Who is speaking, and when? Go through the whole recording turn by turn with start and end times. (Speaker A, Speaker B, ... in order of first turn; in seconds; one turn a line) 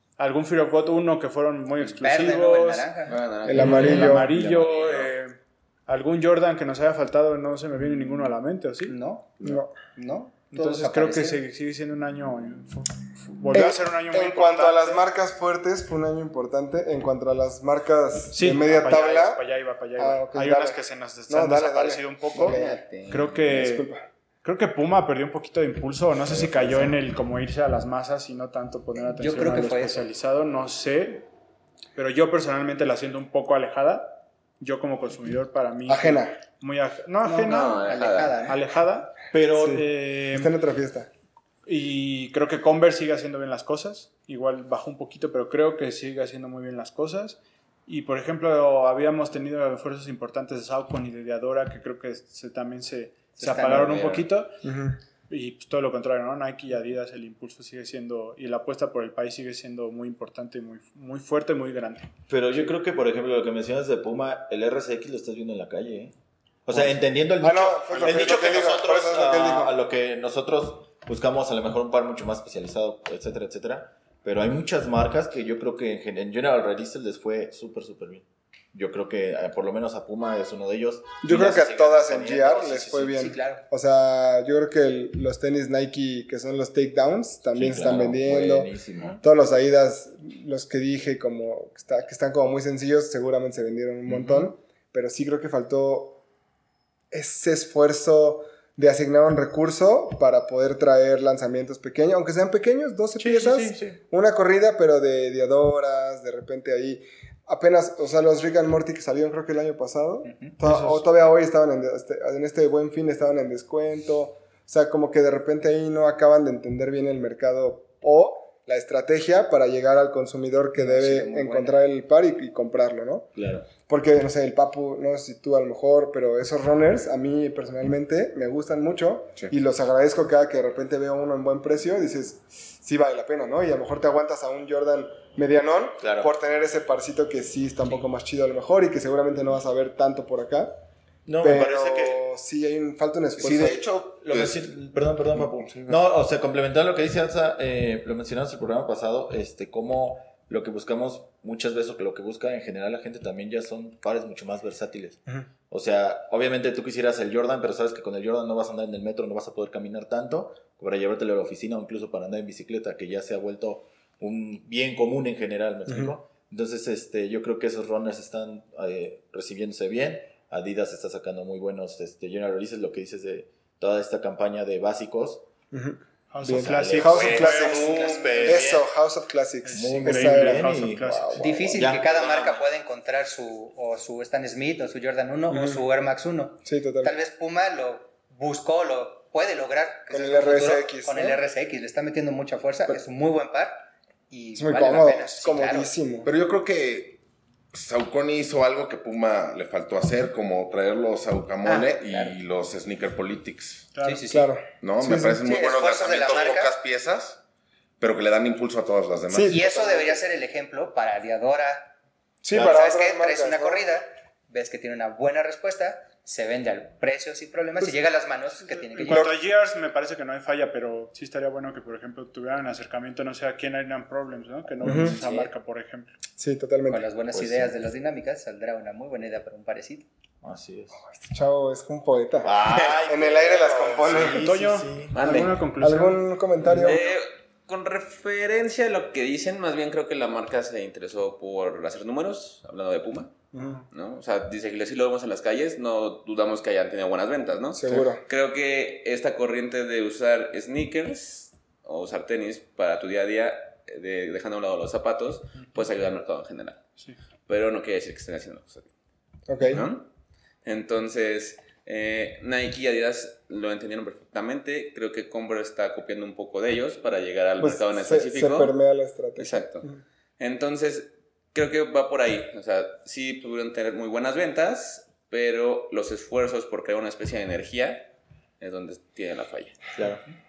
Speaker A: 0.2-2.9
Speaker B: 1.8-3.2
Speaker C: 3.1-5.1
Speaker D: 3.5-4.3
Speaker A: 3.5-9.0
Speaker E: 3.6-4.0
Speaker B: 8.9-11.4
Speaker D: 9.4-9.8
Speaker A: 10.4-15.1
Speaker D: 13.5-19.4
Speaker A: 18.3-23.9
Speaker D: 20.0-22.8
Speaker C: 22.4-23.4
Speaker D: 23.4-24.1
Speaker A: 24.4-31.3
Speaker E: 26.4-26.7
Speaker B: 29.0-30.1
Speaker A: 32.0-37.9
Speaker D: 35.9-36.4
Speaker B: 37.2-38.6
Speaker C: 37.4-38.4
Speaker A: 38.4-40.5
Speaker E: 39.3-39.8
Speaker D: 39.5-41.1
Speaker A: 41.7-54.6
Speaker B: 53.4-54.0
Speaker C: 53.6-54.2
Speaker D: 54.6-55.0
Speaker A: 55.3-62.1
Speaker E: 62.3-66.2
Speaker E: 66.7-83.3
Speaker D: 66.7-69.7
Speaker A: 67.9-68.7
Speaker D: 81.2-96.2
Speaker B: 83.2-83.6
Speaker E: 87.5-89.2
Speaker E: 94.1-94.5
Speaker D: 97.1-140.8
Speaker E: 103.2-104.0
Speaker B: 110.2-110.6
Speaker A: 110.6-111.1
Speaker B: 120.8-121.8
Speaker E: 123.4-123.7
Speaker E: 136.0-136.3
Speaker E: 141.2-142.2
Speaker D: 141.4-143.8
Speaker E: 143.4-175.4
Speaker F: 144.3-144.7
Speaker D: 165.9-166.1
Speaker D: 175.7-180.7
Speaker A: 176.3-178.6
Speaker E: 176.5-178.9
Speaker B: 178.0-178.3
Speaker A: 179.7-181.7
Speaker E: 179.7-182.5
Speaker B: 181.4-195.9
Speaker C: 182.3-182.5
Speaker D: 185.5-185.8
Speaker D: 186.6-187.2
Speaker D: 190.1-191.4
Speaker D: 194.6-196.3
Speaker F: 196.2-197.2
Speaker F: 197.7-203.9
Speaker B: 201.6-202.4
Speaker A: 203.9-204.3
Speaker B: 204.0-204.5
Speaker D: 204.3-205.7
Speaker F: 204.8-207.4
Speaker B: 205.4-206.7
Speaker F: 208.0-210.2
Speaker D: 209.3-209.7
Speaker B: 209.5-211.9
Speaker D: 212.4-213.8
Speaker E: 212.5-212.8
Speaker B: 212.6-219.4
Speaker A: 218.6-226.1
Speaker D: 219.1-219.3
Speaker D: 224.8-225.2
Speaker B: 225.2-225.5
Speaker D: 226.4-227.1
Speaker B: 226.9-230.1
Speaker E: 227.3-227.7
Speaker E: 230.4-231.0
Speaker D: 231.1-234.5
Speaker E: 232.4-235.2
Speaker A: 234.3-236.3
Speaker C: 235.1-235.6
Speaker D: 235.8-237.2
Speaker C: 236.7-243.3
Speaker D: 243.5-243.9
Speaker C: 243.9-256.8
Speaker D: 247.7-248.2
Speaker C: 257.5-258.9
Speaker D: 259.5-259.9
Speaker C: 259.6-260.1
Speaker C: 260.6-268.8
Speaker D: 267.6-270.0
Speaker C: 269.4-279.8
Speaker E: 280.0-280.2